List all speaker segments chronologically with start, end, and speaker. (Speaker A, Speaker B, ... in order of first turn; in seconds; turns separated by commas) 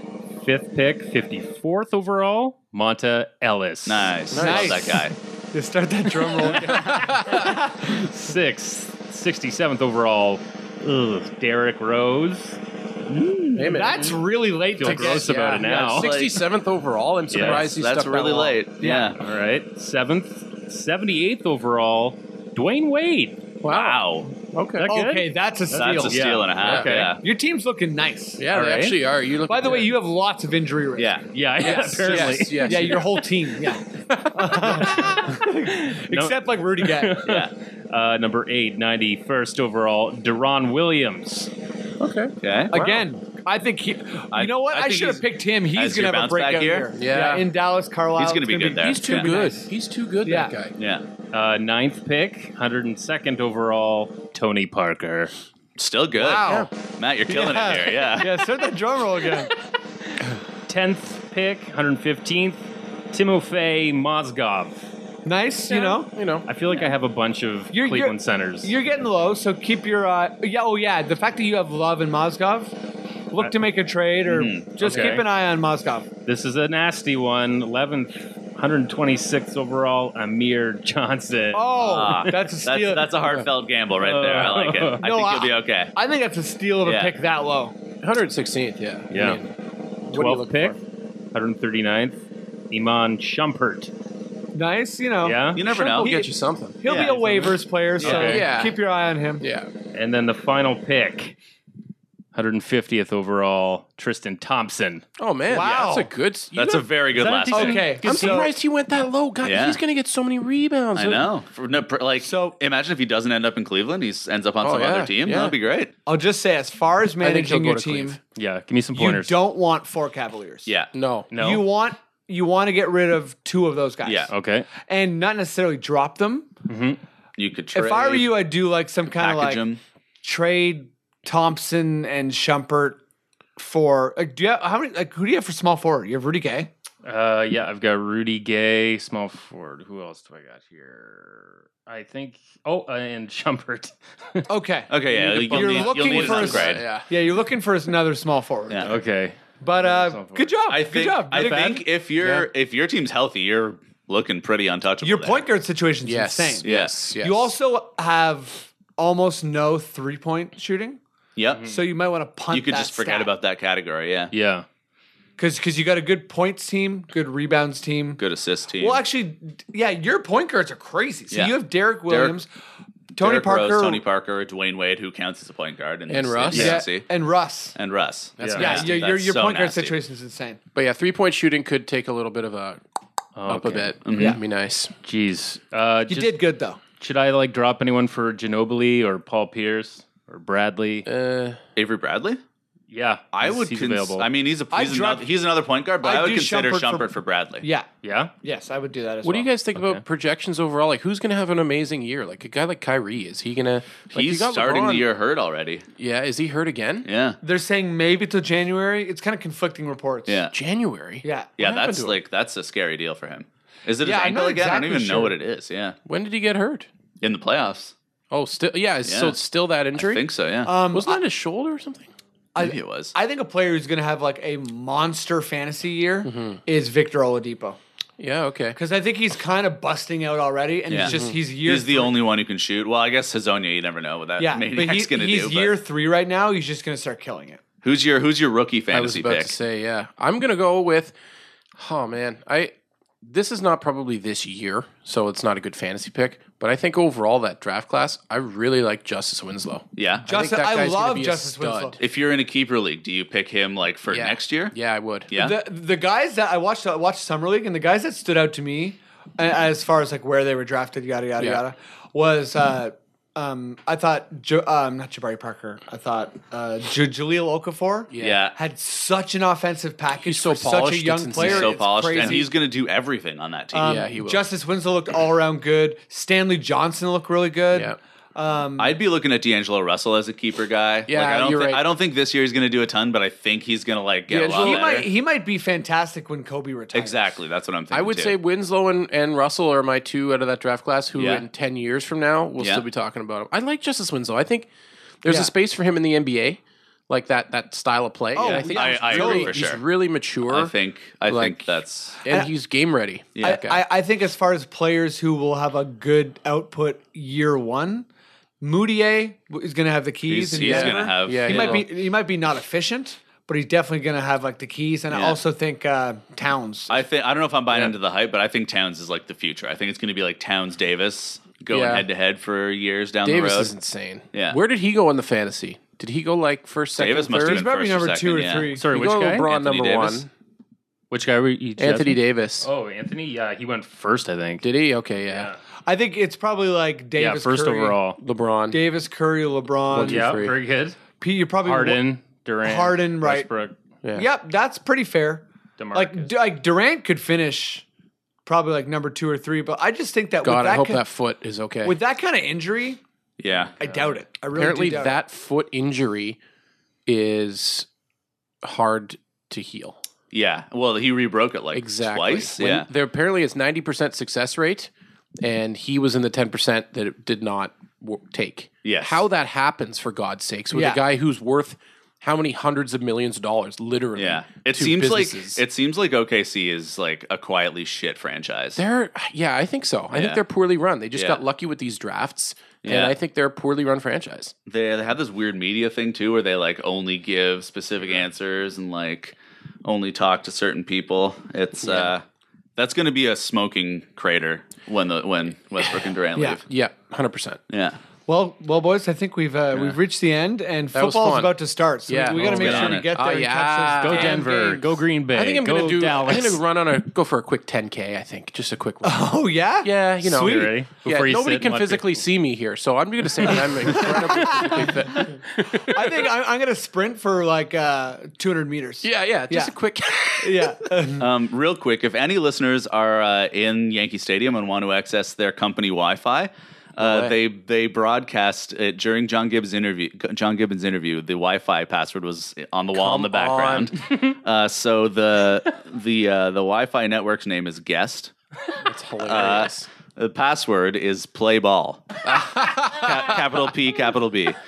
Speaker A: 0.4-4.5, Speaker B: 3.9-5.2, Speaker C: 4.3-4.8, Speaker D: 4.3-8.1, Speaker A: 6.4-12.6, Speaker B: 6.6-7.2, Speaker C: 7.0-7.3, Speaker B: 13.1-13.9, Speaker C: 13.6-14.2, Speaker D: 13.7-15.9, Speaker A: 14.8-16.1, Speaker C: 14.8-18.6, Speaker B: 16.0-16.4, Speaker A: 17.3-17.6, Speaker B: 17.4-19.2, Speaker A: 18.8-23.5, Speaker C: 23.6-24.9, Speaker B: 23.7-24.3, Speaker A: 24.8-27.2, Speaker D: 24.8-26.2, Speaker B: 25.7-27.2, Speaker C: 26.6-26.9, Speaker D: 27.2-28.5, Speaker C: 28.4-29.9, Speaker A: 28.5-29.0, Speaker D: 29.5-31.2, Speaker B: 31.0-31.2, Speaker A: 31.3-33.1, Speaker C: 31.6-33.2, Speaker D: 32.6-37.2, Speaker C: 33.9-35.0, Speaker A: 34.6-41.5, Speaker B: 37.2-37.5, Speaker C: 42.0-42.3, Speaker B: 42.4-43.0, Speaker D: 42.7-49.7, Speaker B: 44.3-45.2, Speaker B: 45.8-46.9, Speaker C: 46.9-47.5, Speaker B: 48.2-49.3, Speaker C: 48.8-50.8, Speaker D: 50.2-50.5, Speaker B: 50.8-51.0, Speaker A: 51.3-55.3, Speaker B: 55.8-58.4, Speaker D: 56.1-56.7, Speaker D: 57.3-59.5, Speaker A: 60.7-64.8, Speaker D: 65.2-66.1, Speaker C: 65.7-66.5, Speaker A: 66.5-68.7, Speaker B: 66.7-66.9, Speaker D: 67.7-72.7, Speaker D: 73.3-76.1, Speaker B: 74.3-75.1, Speaker A: 74.8-75.2, Speaker A: 76.3-82.2, Speaker D: 81.5-83.1, Speaker B: 81.8-85.9, Speaker A: 84.0-85.0, Speaker D: 85.0-87.7, Speaker B: 86.8-87.1, Speaker C: 88.0-89.5, Speaker A: 89.1-89.4, Speaker C: 90.1-90.8, Speaker A: 90.1-90.8, Speaker A: 91.3-92.2, Speaker A: 92.7-93.9, Speaker D: 94.5-99.4, Speaker A: 95.2-95.6, Speaker B: 95.5-96.2, Speaker C: 96.0-98.8, Speaker B: 96.9-97.1, Speaker A: 98.0-98.4, Speaker C: 99.4-99.7, Speaker A: 99.9-101.4, Speaker A: 102.3-105.0, Speaker C: 105.2-106.8, Speaker D: 105.5-106.1, Speaker B: 106.5-107.9, Speaker A: 107.2-108.4, Speaker D: 107.5-108.5, Speaker C: 108.0-111.3, Speaker B: 109.4-109.8, Speaker B: 111.0-115.9, Speaker D: 112.2-112.6, Speaker C: 114.6-115.5, Speaker D: 116.1-118.2, Speaker C: 117.2-118.2, Speaker A: 118.3-119.3, Speaker D: 118.9-120.7, Speaker C: 120.9-121.3, Speaker A: 121.3-121.6, Speaker D: 121.3-126.5, Speaker B: 124.0-124.3, Speaker A: 124.3-124.7, Speaker A: 126.7-127.0, Speaker B: 127.4-128.4, Speaker D: 127.7-129.6, Speaker B: 129.2-129.8, Speaker D: 130.2-133.0, Speaker D: 133.6-136.7, Speaker A: 137.1-144.5, Speaker D: 144.5-148.9, Speaker B: 144.9-146.9, Speaker C: 145.6-147.1, Speaker B: 148.7-149.0, Speaker A: 148.8-150.6, Speaker D: 149.6-151.9, Speaker B: 150.7-155.5, Speaker C: 152.2-152.5, Speaker D: 155.0-161.0, Speaker C: 156.1-157.5, Speaker B: 156.6-157.0, Speaker B: 161.4-161.7, Speaker D: 161.6-163.3, Speaker B: 162.5-164.3, Speaker A: 164.3-164.7, Speaker D: 165.4-168.2, Speaker B: 168.2-169.0, Speaker D: 168.8-172.5, Speaker B: 172.1-172.4, Speaker D: 173.2-174.0, Speaker B: 173.2-177.1, Speaker C: 176.1-176.8, Speaker D: 176.5-177.8, Speaker B: 177.8-179.9, Speaker C: 178.4-179.0, Speaker A: 178.4-178.8, Speaker D: 178.6-180.6, Speaker C: 180.7-182.8, Speaker A: 183.4-184.0, Speaker C: 183.5-184.9, Speaker B: 184.1-184.4, Speaker D: 184.1-184.4, Speaker A: 185.0-186.3, Speaker D: 186.1-186.8, Speaker A: 187.0-191.1, Speaker C: 191.1-191.6, Speaker B: 191.8-192.4, Speaker A: 192.9-194.3, Speaker B: 193.3-197.7, Speaker D: 194.7-195.3, Speaker D: 196.0-197.9, Speaker A: 198.0-198.3, Speaker D: 198.4-199.5, Speaker C: 199.2-205.1, Speaker A: 199.8-200.0, Speaker B: 204.1-205.8, Speaker C: 206.0-207.1, Speaker B: 207.0-207.4, Speaker D: 207.4-210.4, Speaker B: 210.3-210.5, Speaker C: 210.5-212.2, Speaker D: 211.2-211.5, Speaker B: 211.6-216.0, Speaker D: 214.0-215.3, Speaker C: 216.1-216.9, Speaker B: 217.2-217.9, Speaker C: 218.3-220.2, Speaker B: 219.1-219.4, Speaker B: 219.9-220.7, Speaker D: 220.7-221.2, Speaker C: 220.9-222.1, Speaker D: 222.6-227.8, Speaker B: 222.6-223.2, Speaker C: 226.2-226.6, Speaker C: 228.2-228.8, Speaker D: 228.8-232.1, Speaker B: 230.9-235.8, Speaker C: 231.0-231.4, Speaker D: 234.4-237.6, Speaker B: 237.8-239.6, Speaker C: 238.9-241.1, Speaker C: 241.8-252.0, Speaker B: 250.0-250.3, Speaker D: 250.3-252.0, Speaker B: 252.0-254.8, Speaker C: 254.1-255.3, Speaker B: 255.3-255.6, Speaker D: 255.3-272.5, Speaker C: 268.1-268.4, Speaker B: 268.2-268.6, Speaker C: 270.2-272.5, Speaker B: 271.4-274.0, Speaker D: 273.7-278.9, Speaker C: 273.8-274.5, Speaker C: 277.7-278.0, Speaker B: 278.8-285.1, Speaker C: 281.1-281.9, Speaker D: 284.3-287.2, Speaker C: 284.4-284.8, Speaker B: 286.9-288.4, Speaker C: 287.9-294.7, Speaker B: 291.1-291.4, Speaker B: 292.6-292.9, Speaker C: 295.2-300.7, Speaker D: 295.3-295.5, Speaker D: 298.4-299.6, Speaker B: 298.4-299.9, Speaker B: 300.5-302.2, Speaker C: 301.3-301.7, Speaker C: 302.2-303.8, Speaker D: 302.2-302.5, Speaker B: 303.4-303.7, Speaker D: 303.4-308.1, Speaker D: 308.6-317.0, Speaker B: 310.3-311.9, Speaker C: 310.6-311.9, Speaker B: 315.1-315.4, Speaker B: 316.9-323.7, Speaker C: 321.7-322.1, Speaker C: 323.2-327.6, Speaker B: 324.3-324.6, Speaker B: 327.0-328.7, Speaker D: 327.4-328.8, Speaker A: 328.8-329.5, Speaker C: 328.8-330.3, Speaker B: 329.3-330.2, Speaker A: 331.1-334.6, Speaker C: 331.8-332.7, Speaker C: 334.6-335.5, Speaker A: 335.3-335.6, Speaker D: 335.9-338.0, Speaker A: 337.2-338.2, Speaker C: 338.2-338.8, Speaker D: 338.7-340.4, Speaker C: 339.9-340.6, Speaker A: 340.0-341.0, Speaker D: 341.2-342.0, Speaker A: 341.6-343.8, Speaker D: 342.6-343.5, Speaker D: 344.1-347.9, Speaker A: 345.8-346.3, Speaker D: 348.5-351.1, Speaker C: 350.4-352.0, Speaker D: 351.8-353.0, Speaker B: 353.4-353.8, Speaker D: 353.8-355.2, Speaker C: 354.6-356.4, Speaker C: 357.1-357.9, Speaker C: 358.6-360.0, Speaker B: 360.3-362.9, Speaker C: 361.7-375.6, Speaker B: 368.8-369.2, Speaker D: 370.7-371.0, Speaker B: 374.2-378.8, Speaker C: 378.8-384.5, Speaker B: 380.1-380.4, Speaker B: 381.1-381.4, Speaker B: 382.8-383.1, Speaker B: 384.7-392.2, Speaker C: 391.8-392.1, Speaker B: 392.8-396.6, Speaker C: 395.8-396.1, Speaker C: 396.7-397.6, Speaker B: 397.7-398.0, Speaker D: 398.3-404.5, Speaker C: 400.9-401.6, Speaker C: 402.1-416.2, Speaker A: 402.4-403.0, Speaker B: 402.4-403.1, Speaker A: 404.0-406.6, Speaker D: 409.0-410.8, Speaker A: 410.4-412.1, Speaker D: 413.6-419.8, Speaker C: 419.0-421.0, Speaker D: 420.4-421.3, Speaker B: 421.2-438.3, Speaker C: 427.0-427.4, Speaker C: 432.9-433.9, Speaker C: 438.8-439.9, Speaker B: 439.2-444.6, Speaker C: 442.2-443.5